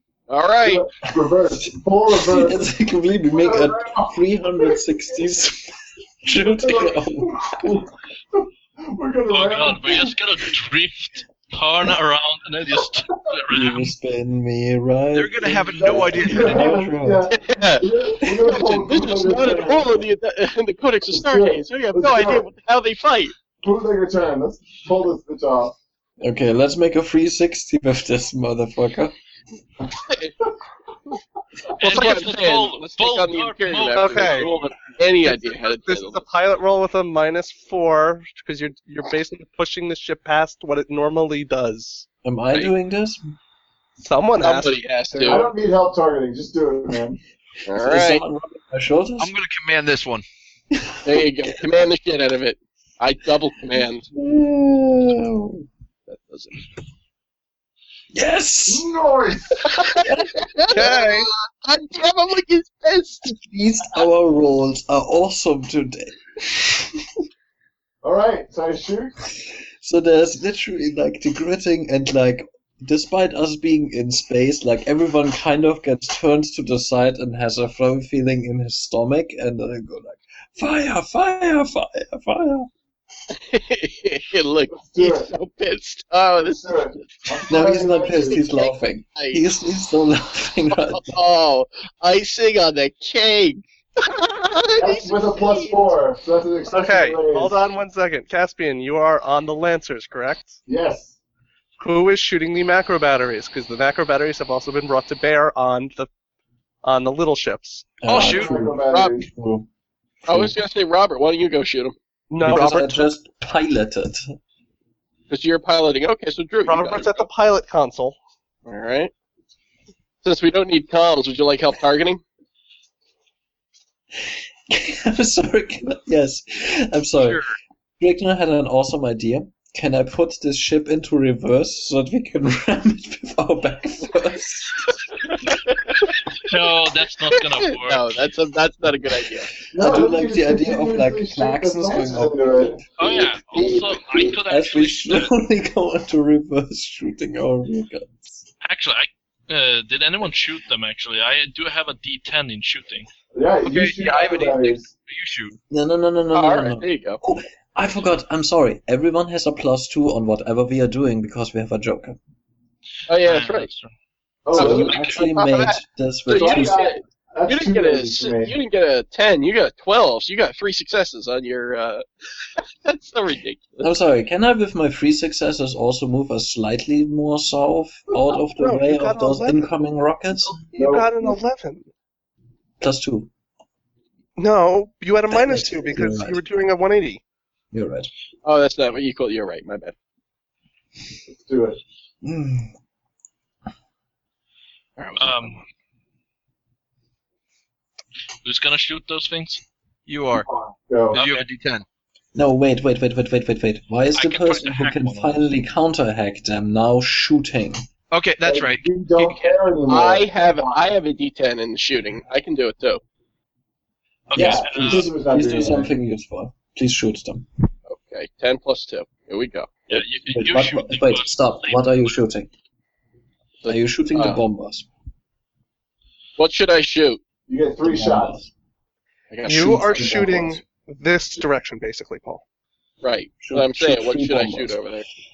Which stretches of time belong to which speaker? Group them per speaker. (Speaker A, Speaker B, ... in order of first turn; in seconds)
Speaker A: 0.3-0.8, 17.3-17.9, 18.5-23.3, 30.1-30.3, 31.8-36.2, 44.4-45.5, 47.6-48.2, 51.0-54.0, 56.1-56.6, 59.6-63.3, 83.3-87.0, 88.2-89.4, 90.7-95.9, 108.9-109.2, 110.3-111.9, 115.3-117.3, 118.7-119.1, 120.2-122.2, 135.3-136.1, 137.3-139.5, 156.3-157.2, 163.1-163.7, 164.5-172.0, 172.6-173.9, 188.4-189.9, 195.0-195.6, 209.9-213.0, 217.9-220.0, 223.6-224.4, 226.4-227.2, 229.3-230.4, 233.0-235.1
Speaker B: 0.6-2.7, 3.3-4.8, 6.4-10.1, 15.8-20.0, 21.1-22.5, 23.6-25.7, 45.2-47.2, 58.7-59.8, 68.0-69.1, 84.7-85.3, 86.4-88.4, 94.8-97.6, 100.7-101.2, 108.1-109.3, 139.7-142.8, 153.3-154.9, 164.4-165.0, 166.3-168.6, 180.8-181.3, 191.3-191.8, 200.3-201.2, 208.4-210.9, 214.3-215.9, 227.5-228.4
Speaker C: 1.6-7.8, 13.5-17.3, 18.3-18.7, 26.2-29.1, 42.2-43.3, 47.7-49.3, 50.7-51.6, 54.1-55.7, 58.1-58.9, 60.0-60.3, 63.2-67.0, 69.8-82.7, 87.5-91.1, 108.0-109.7, 110.2-110.5, 112.4-114.3, 124.2-127.4, 128.0-135.0, 139.7-142.8, 144.4-148.4, 155.7-162.2, 164.5-166.8, 173.8-180.6, 182.8-183.3, 185.3-186.4, 187.7-188.1, 192.2-192.7, 202.3-207.8, 214.3-217.5, 220.3-222.5, 223.7-224.9, 227.8-228.5, 229.5-230.6, 233.4-234.8
Speaker D: 9.3-13.9, 31.8-34.7, 136.4-138.1, 143.0-145.3, 148.6-153.1, 163.2-163.9, 195.2-195.6, 198.4-199.6, 201.1-201.4, 204.1-205.4, 214.3-215.1, 219.9-222.0
Speaker E: 15.1-16.8, 49.2-50.2, 108.0-108.6, 153.6-155.6, 200.1-200.5, 201.1-201.8, 208.1-209.3
Speaker F: 33.9-34.5, 35.2-42.1, 44.0-45.4, 60.7-61.3, 96.7-100.6, 101.8-106.1, 106.8-108.0, 112.3-113.1, 116.7-118.2, 178.6-179.7, 180.7-181.9, 184.4-187.2, 229.4-232.4